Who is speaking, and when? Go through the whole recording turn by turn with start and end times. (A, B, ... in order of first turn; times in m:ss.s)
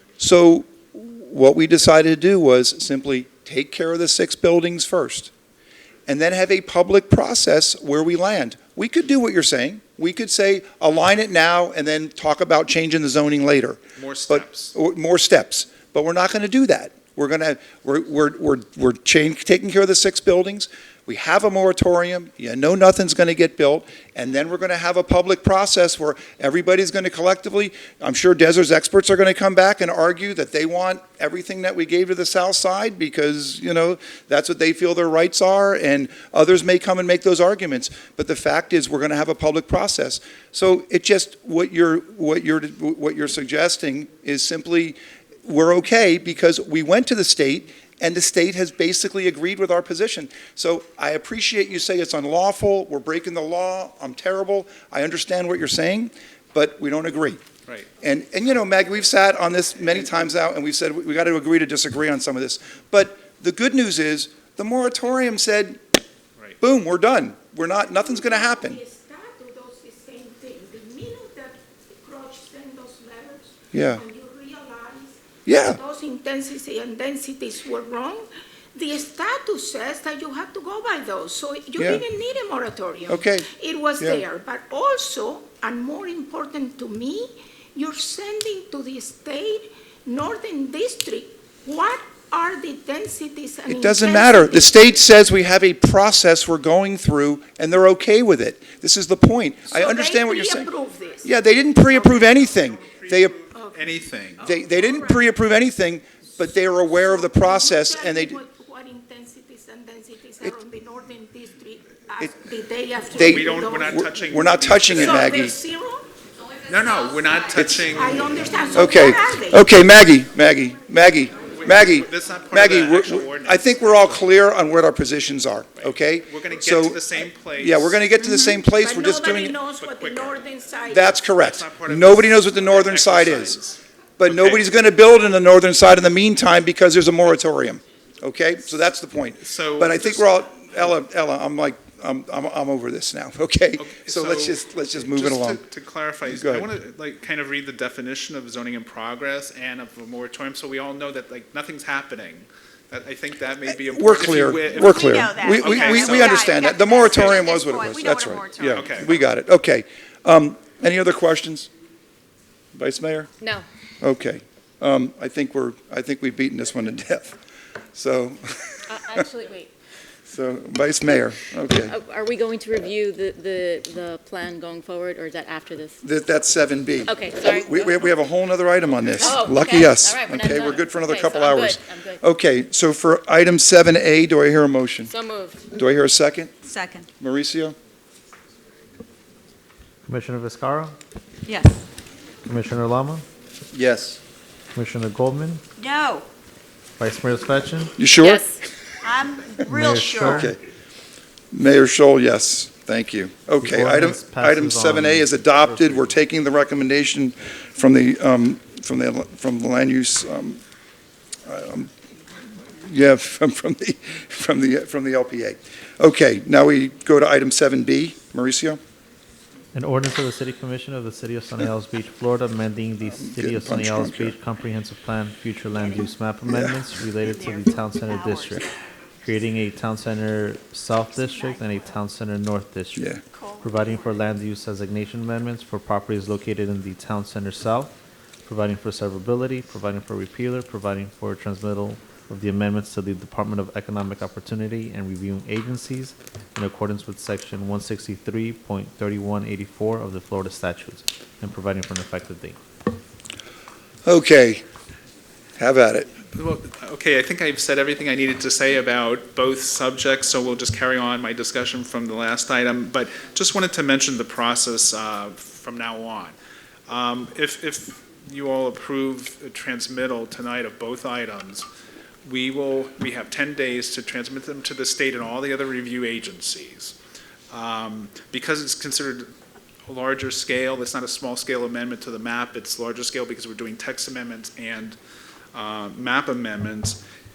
0:00.2-0:05.3 A
0:06.1-0:57.4 A
0:14.0-0:14.7 B
0:58.0-1:05.8 A
1:06.6-1:08.8 A
1:08.0-1:34.9 C
1:13.7-1:14.0 A
1:15.4-1:15.8 A
1:21.8-1:22.0 A
1:23.1-1:23.5 A
1:33.7-1:40.7 A
1:39.7-1:41.3 C
1:41.2-1:43.3 A
1:41.9-1:42.2 C
1:42.4-1:44.4 B
1:43.5-1:45.2 C
1:44.4-1:48.4 A
1:46.8-1:54.1 C
1:53.1-1:55.6 A
1:53.2-1:55.3 B
1:54.9-1:56.1 C
1:56.7-1:58.7 B
1:56.8-1:57.3 D
1:57.5-1:57.9 A
1:57.9-1:59.7 C
1:58.7-2:09.6 A
2:01.5-2:04.2 B
2:05.8-2:08.1 B
2:08.7-2:11.2 C
2:09.7-2:10.6 B
2:10.9-2:13.6 A
2:11.2-2:14.6 B
2:14.2-2:25.6 A
2:19.4-2:20.3 B
2:23.8-2:37.5 B
2:26.3-2:26.7 A
2:33.8-2:41.7 A
2:34.5-2:39.1 D
2:38.6-2:39.1 B
2:42.7-2:43.3 A
2:44.0-2:47.4 A
2:47.9-2:49.0 A
2:48.9-2:49.7 E
2:50.3-2:51.9 A
2:51.8-2:56.0 E
2:56.0-3:05.1 A
2:57.0-2:58.1 E
2:59.2-3:02.2 E
3:05.1-3:05.6 E
3:05.7-3:06.5 A
3:06.6-3:07.1 D
3:07.2-3:07.7 A
3:10.1-3:10.9 F
3:11.4-3:11.8 D
3:12.4-3:13.2 F
3:13.7-3:14.2 A
3:14.7-3:15.6 F
3:15.8-3:16.3 D
3:17.0-3:18.0 F
3:18.0-3:18.4 A
3:18.2-3:18.5 E
3:19.0-3:20.5 D
3:19.7-3:20.5 F
3:20.1-3:20.6 A
3:21.5-3:30.6 A
3:23.6-3:26.2 F
3:31.4-3:31.9 A
3:32.8-3:38.8 A
3:39.7-3:48.7 F
3:43.1-3:44.3 A
3:45.8-3:46.1 D
3:46.5-3:46.8 A
3:47.2-3:48.7 D
3:49.2-3:57.9 F
3:51.0-3:52.0 D
3:53.2-3:54.1 D
3:58.4-4:12.6 F
4:14.0-4:14.6 A
4:15.6-4:16.1 A
4:16.4-4:26.4 B
4:26.9-4:31.7 B
4:32.2-4:36.9 B
4:37.5-4:39.3 B
4:39.9-4:45.0 B
4:45.5-4:47.0 B